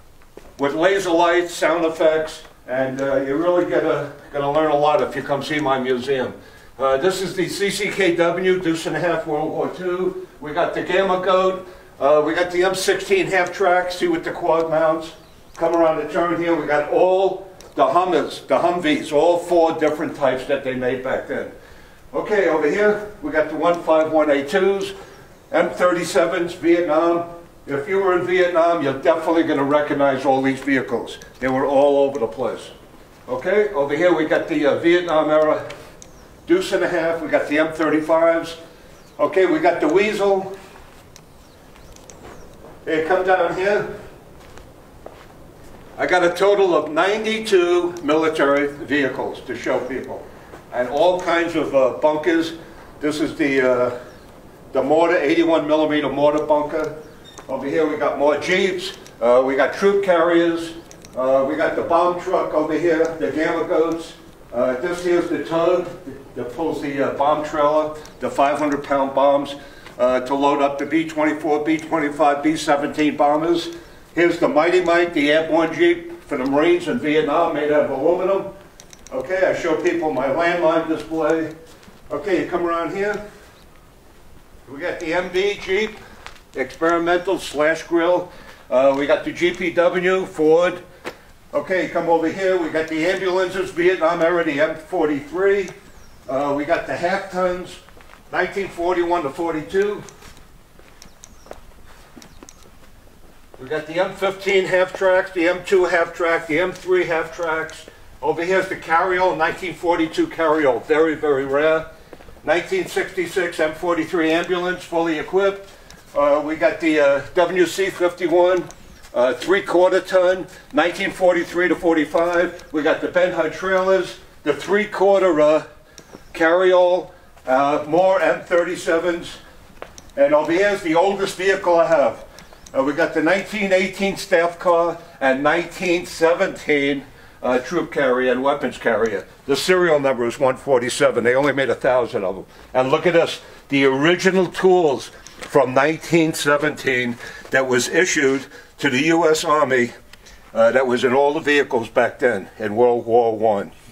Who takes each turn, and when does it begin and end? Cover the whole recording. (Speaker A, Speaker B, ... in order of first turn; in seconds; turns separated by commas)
Speaker A: 0.6-21.5, Speaker A: 22.1-24.9, Speaker A: 25.5-32.7, Speaker A: 33.3-35.6, Speaker A: 36.5-38.6, Speaker A: 39.2-40.5, Speaker A: 42.8-43.9, Speaker A: 46.0-54.0, Speaker A: 54.7-56.9, Speaker A: 57.5-78.5, Speaker A: 79.1-81.5, Speaker A: 82.1-83.2, Speaker A: 84.7-85.9, Speaker A: 86.5-90.8, Speaker A: 91.5-95.7, Speaker A: 96.3-100.0, Speaker A: 103.6-111.9, Speaker A: 112.4-125.6, Speaker A: 126.3-129.4, Speaker A: 130.2-149.9, Speaker A: 150.5-153.7